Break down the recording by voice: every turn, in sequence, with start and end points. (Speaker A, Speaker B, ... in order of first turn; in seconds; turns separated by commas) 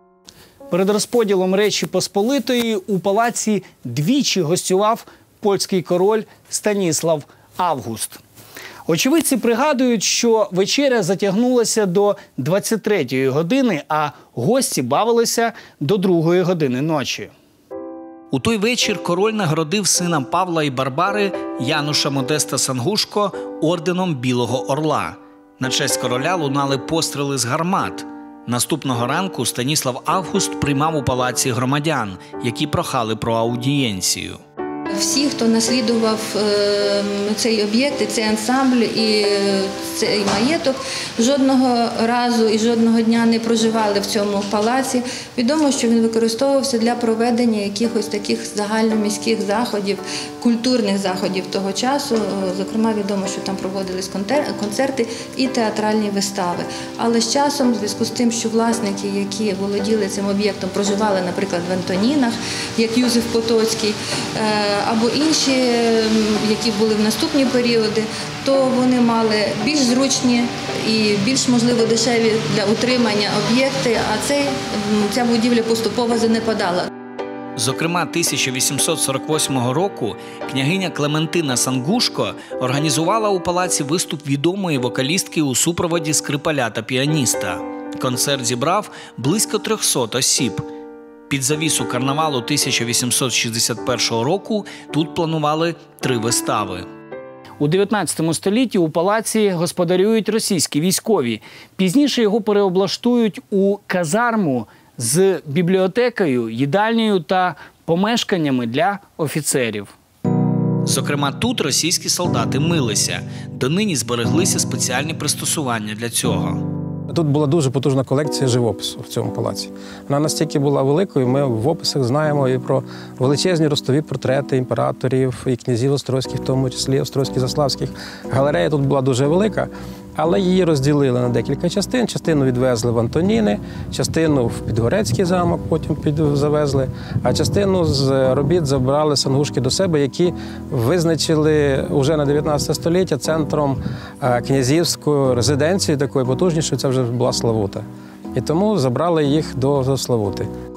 Speaker A: 0.7-8.2, Speaker A: 8.8-17.3, Speaker B: 18.3-34.4, Speaker C: 34.9-76.9, Speaker B: 77.5-90.7, Speaker B: 91.3-96.9, Speaker A: 97.6-109.9, Speaker B: 110.8-116.7, Speaker D: 117.1-150.5